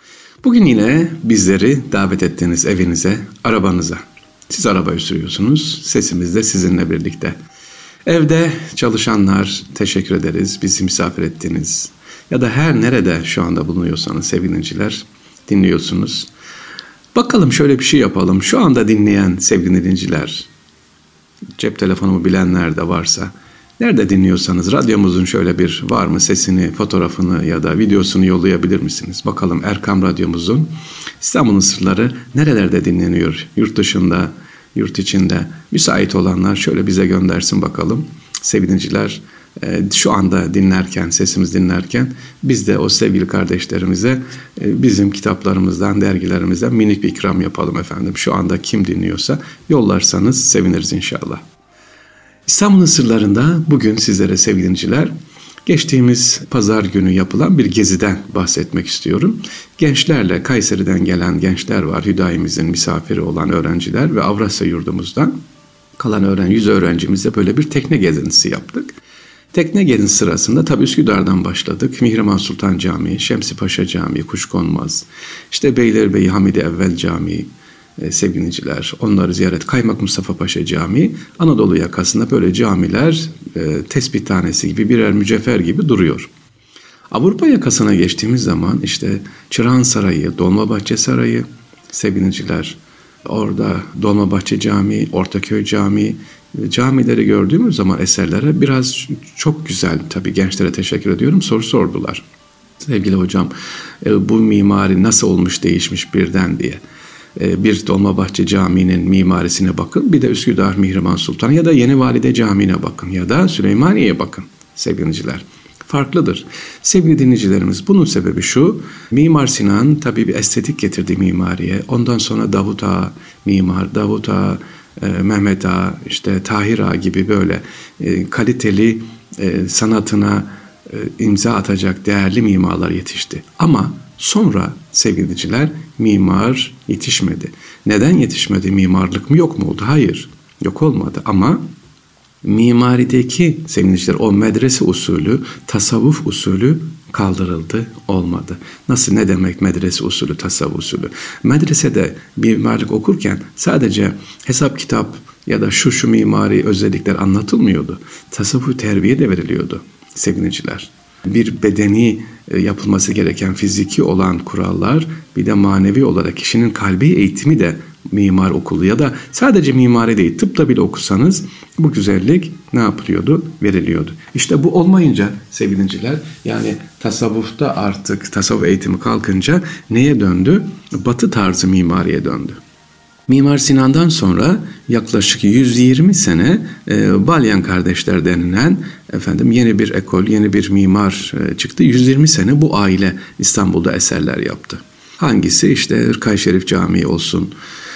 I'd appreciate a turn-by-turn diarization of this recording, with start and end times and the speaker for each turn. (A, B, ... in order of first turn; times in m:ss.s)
0:00.4-0:07.4 A
0:08.1-0:16.3 A
0:17.2-0:20.5 A
0:21.6-0:51.4 A
0:52.5-0:55.1 A
0:55.7-1:05.4 A
1:06.0-1:09.0 A
1:09.5-1:26.3 A
1:27.1-1:42.2 A
1:42.8-1:46.8 A
1:47.4-2:21.6 A
2:22.4-3:02.6 A
3:03.3-3:17.5 A